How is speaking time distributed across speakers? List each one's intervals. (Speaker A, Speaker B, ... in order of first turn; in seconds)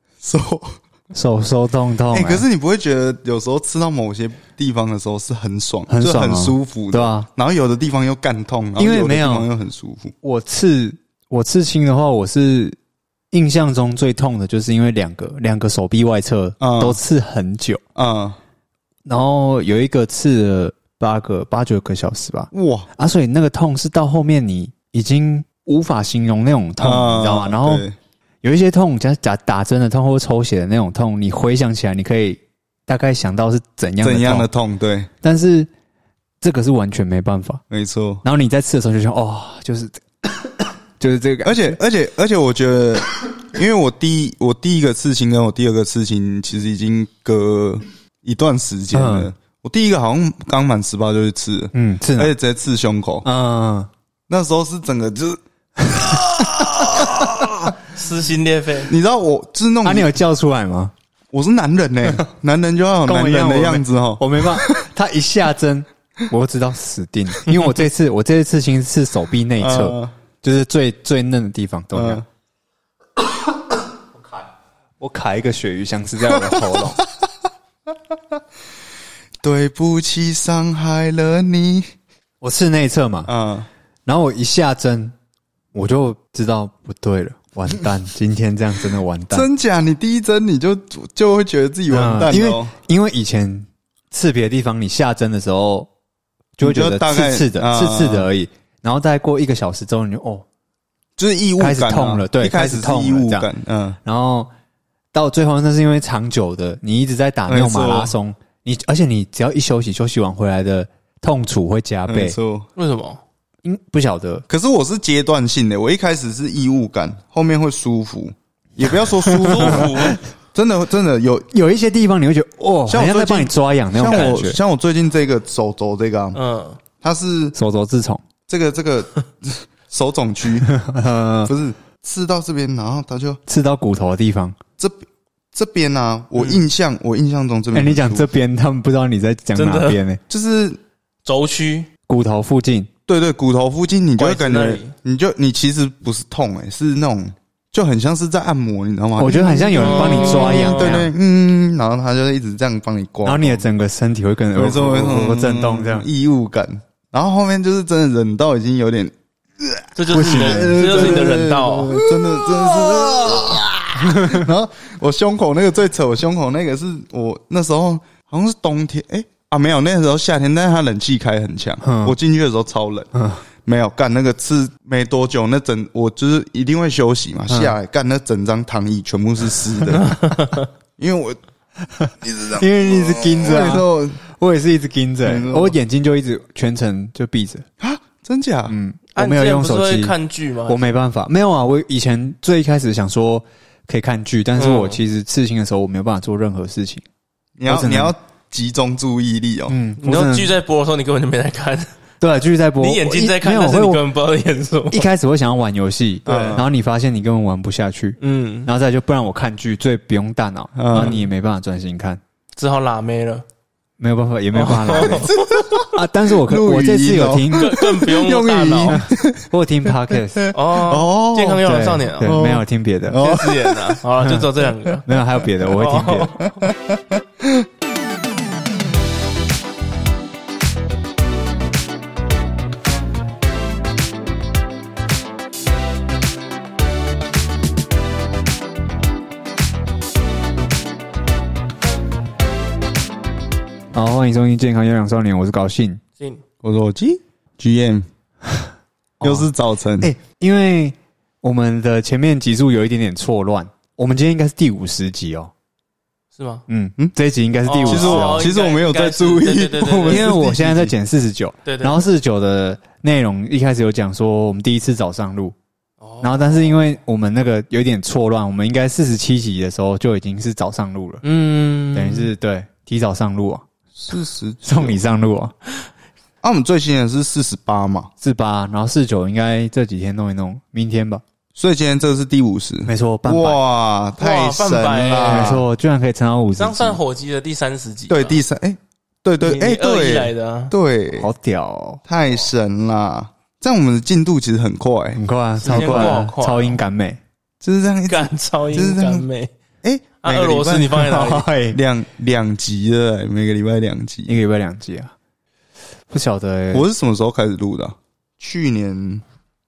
Speaker A: 0.2-0.8, 2.1-10.1, 16.6-17.0, 18.0-18.4, 22.5-22.9, 26.8-27.9, 34.0-35.1, 37.7-38.2, 41.5-53.2, 54.3-57.8, 58.9-60.1, 61.3-64.8, 69.6-70.1, 71.9-72.2, 76.3-76.8, 79.4-81.9, 83.3-83.7, 89.3-92.7, 96.6-98.3, 101.2-104.0, 107.5-108.1, 112.1-112.7, 114.5-121.5, 122.9-126.4, 127.0-127.5, 128.5-130.7, 131.5-133.4, 135.5-138.3, 140.3-140.8, 143.1-153.6, 154.6-173.1, 173.7-180.1, 181.0-181.4, 182.2-184.2, 185.2-185.8, 187.8-188.8, 197.6-199.8, 206.3-206.7, 210.8-211.2, 214.9-221.6, 222.2-224.0, 226.6-227.7, 246.6-248.1, 249.2-250.1, 257.8-260.9, 274.0-275.0, 276.4-278.1, 281.6-285.7, 288.1-291.3, 292.1-296.2, 297.6-299.3, 299.8-304.4, 306.7-309.2
Speaker B: 1.1-2.5, 5.9-7.3, 8.8-9.5, 10.2-12.8, 13.3-17.8, 19.1-27.8, 28.4-34.5, 35.2-35.7, 36.4-37.6, 38.2-41.8, 48.9-49.3, 51.7-52.3, 53.2-53.9, 55.9-57.1, 59.9-60.9, 63.1-72.2, 75.0-77.0, 82.4-83.3, 84.1-85.1, 85.7-89.5, 91.9-95.9, 96.6-100.5, 101.6-103.5, 104.0-104.5, 105.1-112.4, 113.6-114.5, 119.6-119.9, 121.5-124.6, 127.5-128.2, 130.7-131.5, 133.5-134.6, 137.7-140.2, 142.1-142.9, 149.2-151.1, 153.2-156.1, 160.1-161.4, 163.2-164.5, 171.8-172.2, 173.1-173.4, 177.5-177.8, 181.9-187.7, 188.7-190.2, 190.7-197.0, 197.7-198.1, 199.7-200.6, 202.2-204.0, 204.9-212.2, 214.0-215.3, 215.9-217.8, 218.9-220.4, 221.6-223.2, 224.2-224.5, 225.1-226.3, 243.9-246.0, 249.2-249.5, 250.0-255.5, 256.7-258.5, 260.1-265.6, 266.2-271.2, 271.9-273.6, 274.6-275.5, 278.2-281.2, 282.9-283.6, 285.3-287.0, 291.2-292.0, 295.2-297.2, 301.0-301.8, 304.3-305.1, 306.1-306.9
Speaker C: 57.9-58.9, 112.8-113.2, 119.4-120.2, 124.1-124.3, 126.3-126.8, 136.4-136.6, 139.6-140.0, 141.2-141.9, 144.2-144.9, 149.8-151.1, 160.0-162.0, 179.9-180.7, 189.2-190.8, 194.6-195.0, 200.0-201.9, 202.8-205.1, 208.2-208.7, 210.9-211.3, 212.6-213.4, 214.5-215.8, 217.6-219.0, 220.5-222.4, 223.2-225.1, 225.7-226.6, 256.4-256.6, 257.7-260.3, 261.6-262.0, 266.0-266.8, 271.2-272.3, 284.2-285.6, 286.6-288.4, 289.4-290.7, 295.6-296.8, 298.1-299.5, 300.2-301.5